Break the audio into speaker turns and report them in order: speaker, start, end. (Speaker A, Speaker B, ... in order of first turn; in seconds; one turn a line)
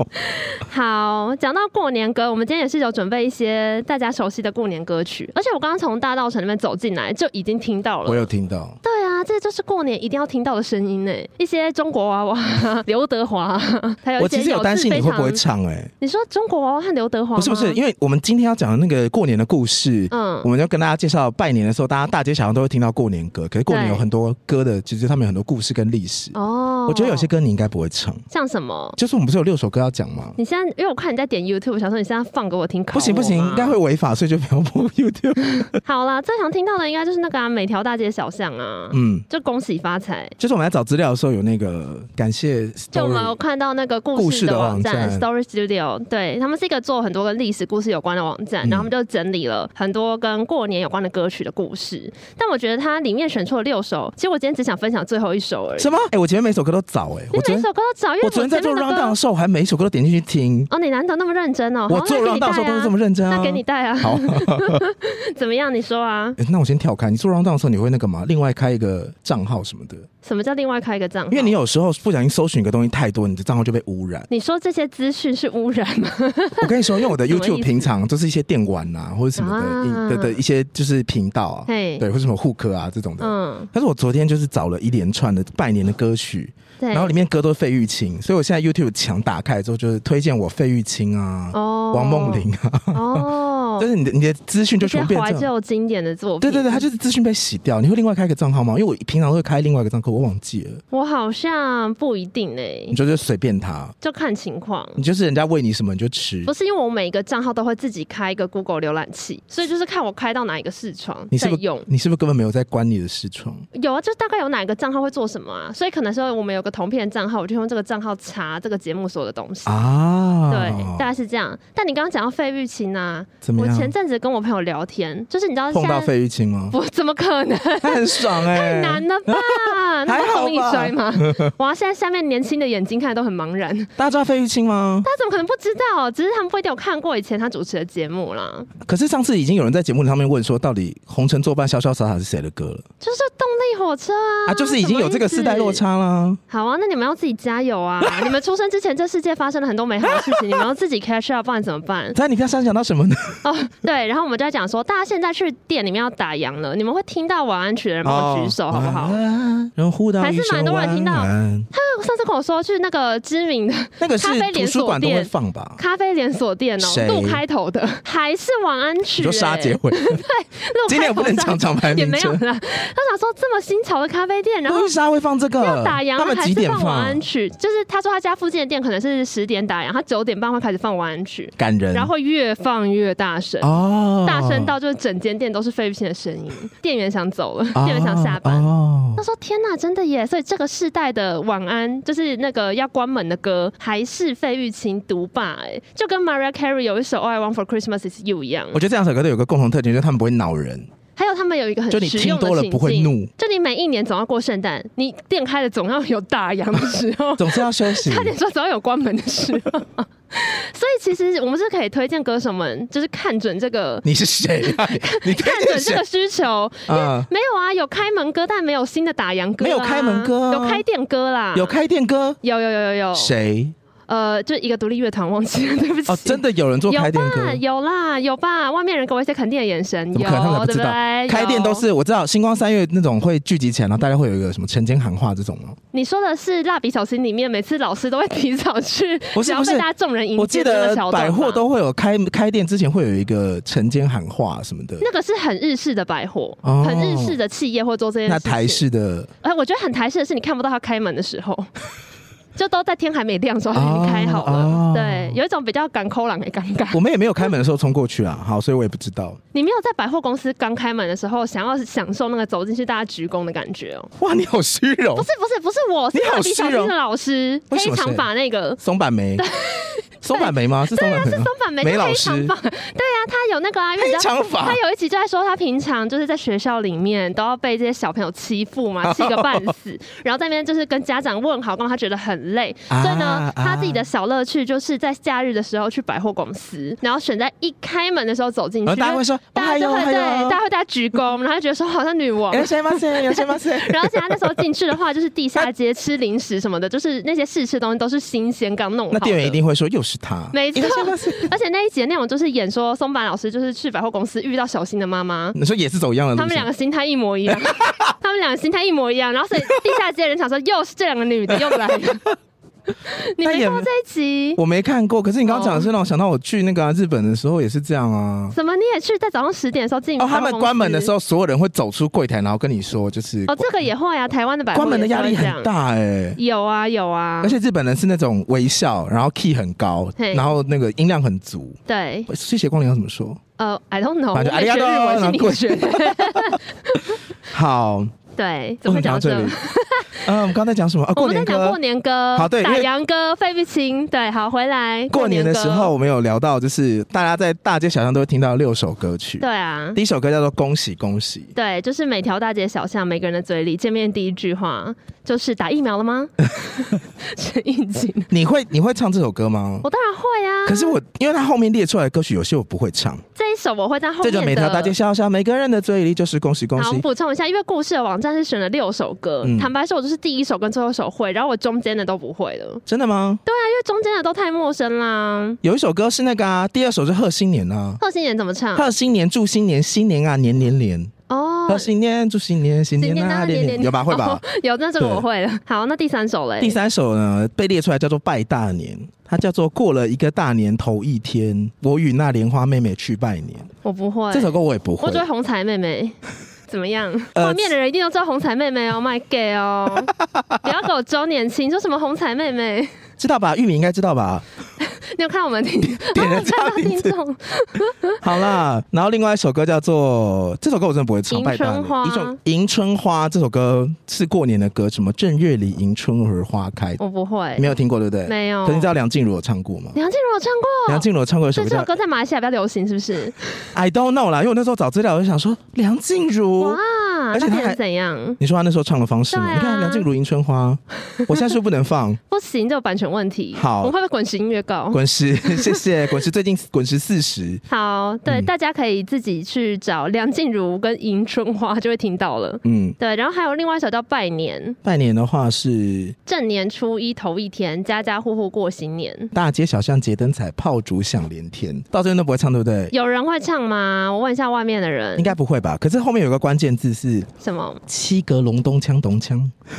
Speaker A: 0.1-8.3
Speaker B: 8.1-8.8
Speaker A: 8.8-15.4
Speaker B: 14.2-15.9
Speaker A: 16.0-17.8
Speaker B: 17.4-26.4
Speaker A: 20.1-20.5
Speaker A: 23.7-24.0
Speaker A: 26.3-27.3
Speaker B: 26.9-28.2
Speaker A: 28.3-29.0
Speaker B: 29.0-30.4
Speaker A: 30.4-33.8
Speaker B: 32.9-35.7
Speaker A: 35.8-40.3
Speaker B: 38.9-39.2
Speaker B: 40.4-43.4
Speaker A: 42.9-55.9
Speaker B: 44.1-45.2
Speaker B: 48.6-48.9
Speaker B: 55.8-57.7
Speaker A: 57.3-59.1
Speaker B: 58.2-60.7
Speaker A: 60.7-66.4
Speaker B: 61.9-64.8
Speaker B: 66.4-70.1
Speaker A: 70.2-71.5
Speaker B: 71.3-74.3
Speaker A: 74.3-77.9
Speaker B: 76.6-95.5
Speaker A: 79.3-80.4
Speaker A: 81.7-82.0
Speaker A: 83.2-83.7
Speaker A: 86.8-87.1
Speaker A: 91.5-93.9
Speaker A: 94.8-96.8
Speaker B: 96.4-100.8
Speaker A: 100.9-103.0
Speaker B: 102.9-103.9
Speaker A: 104.0-105.0
Speaker B: 105.0-106.5
Speaker A: 106.4-111.9
Speaker B: 111.3-113.6
Speaker A: 113.7-119.8
Speaker B: 119.7-121.0
Speaker A: 120.5-126.1
Speaker B: 123.4-123.9
Speaker B: 125.7-126.7
Speaker A: 126.7-133.9
Speaker B: 127.8-131.5
Speaker B: 134.0-135.1
Speaker A: 135.0-138.7
Speaker B: 138.8-142.8
Speaker A: 143.0-145.8
Speaker B: 144.5-146.4
Speaker A: 146.5-152.2
Speaker B: 148.0-148.3
Speaker B: 150.1-150.6
Speaker B: 152.1-153.4
Speaker A: 153.4-159.2
Speaker B: 158.0-161.7
Speaker A: 160.2-174.9
Speaker B: 164.0-165.8
Speaker B: 166.8-167.4
Speaker B: 169.2-170.2
Speaker B: 170.9-172.4
Speaker B: 174.7-177.2
Speaker A: 175.6-183.7
Speaker B: 181.6-182.1
Speaker B: 183.6-184.7
Speaker A: 184.2-198.8
Speaker B: 187.7-189.2
Speaker B: 198.7-200.9
Speaker A: 201.2-214.1
Speaker B: 201.9-203.3
Speaker B: 207.4-208.3
Speaker B: 214.0-216.0
Speaker A: 214.6-221.8
Speaker B: 216.9-217.3
Speaker B: 219.6-220.8
Speaker B: 221.5-222.4
Speaker A: 222.4-223.3
Speaker B: 223.1-223.7
Speaker A: 224.1-231.8
Speaker B: 226.1-227.6
Speaker B: 230.1-235.8
Speaker A: 235.9-241.6
Speaker B: 239.3-245.0
Speaker A: 245.0-248.8
Speaker B: 246.6-247.4
Speaker B: 248.3-249.3
Speaker A: 249.4-251.7
Speaker A: 252.5-257.0
Speaker B: 253.7-255.4
Speaker B: 256.9-259.4
Speaker A: 259.5-264.1
Speaker B: 264.2-265.3
Speaker A: 265.1-268.8
Speaker B: 266.1-266.9
Speaker B: 267.7-268.3
Speaker B: 268.8-269.4
Speaker A: 269.4-299.6
Speaker B: 270.2-272.5
Speaker B: 274.0-274.8
Speaker B: 279.0-279.7
Speaker B: 282.9-284.0
Speaker B: 288.9-290.6
Speaker B: 292.5-294.6
Speaker B: 299.1-301.5
Speaker A: 300.5-305.6
Speaker B: 305.6-306.7
Speaker A: 306.3-312.2
Speaker B: 307.5-308.1
Speaker B: 311.5-312.3
Speaker A: 312.9-314.6
Speaker B: 313.4-313.9
Speaker B: 314.6-318.6
Speaker A: 315.5-315.9
Speaker A: 318.5-321.1
Speaker B: 320.2-323.7
Speaker A: 323.5-325.7
Speaker B: 324.7-326.4
Speaker A: 326.4-327.6
Speaker B: 327.4-333.4
Speaker A: 330.2-330.5
Speaker A: 331.9-332.3
Speaker A: 333.6-337.2
Speaker B: 334.3-336.6
Speaker B: 337.5-338.1
Speaker A: 338.4-340.3
Speaker B: 338.8-339.6
Speaker B: 340.2-341.8
Speaker A: 341.1-345.9
Speaker B: 342.3-342.9
Speaker B: 345.1-351.5
Speaker A: 349.4-350.0
Speaker A: 351.5-358.3
Speaker B: 358.3-359.9
Speaker A: 359.8-361.0
Speaker B: 360.6-363.2
Speaker A: 363.4-364.9
Speaker B: 364.2-367.0
Speaker A: 366.8-372.8
Speaker B: 369.4-369.7
Speaker B: 372.9-373.4
Speaker A: 373.4-375.6
Speaker B: 375.6-378.0
Speaker A: 378.0-378.9
Speaker B: 378.7-381.1
Speaker A: 381.3-381.9
Speaker B: 381.7-384.4
Speaker A: 383.0-386.8
Speaker B: 385.0-385.2
Speaker B: 386.6-393.7
Speaker A: 393.8-396.1
Speaker B: 394.3-395.2
Speaker A: 396.7-402.9
Speaker B: 397.3-397.7
Speaker B: 400.3-400.7
Speaker B: 403.2-404.4
Speaker A: 404.8-408.5
Speaker B: 405.9-407.1
Speaker B: 408.2-417.0
Speaker A: 411.3-412.4
Speaker A: 417.0-417.7
Speaker B: 417.6-419.9
Speaker A: 418.2-418.9
Speaker A: 419.9-423.5
Speaker B: 420.9-421.9
Speaker B: 423.7-426.8
Speaker A: 426.6-428.4
Speaker B: 427.3-427.8
Speaker B: 428.4-432.2
Speaker A: 429.3-430.1
Speaker A: 432.3-435.8
Speaker B: 433.5-433.9
Speaker B: 434.9-437.6
Speaker A: 437.7-444.8
Speaker B: 442.6-442.9
Speaker B: 444.8-446.1
Speaker A: 446.2-449.3
Speaker B: 449.3-452.9
Speaker A: 452.9-455.3
Speaker B: 455.2-457.3
Speaker A: 457.4-457.8
Speaker B: 457.9-459.5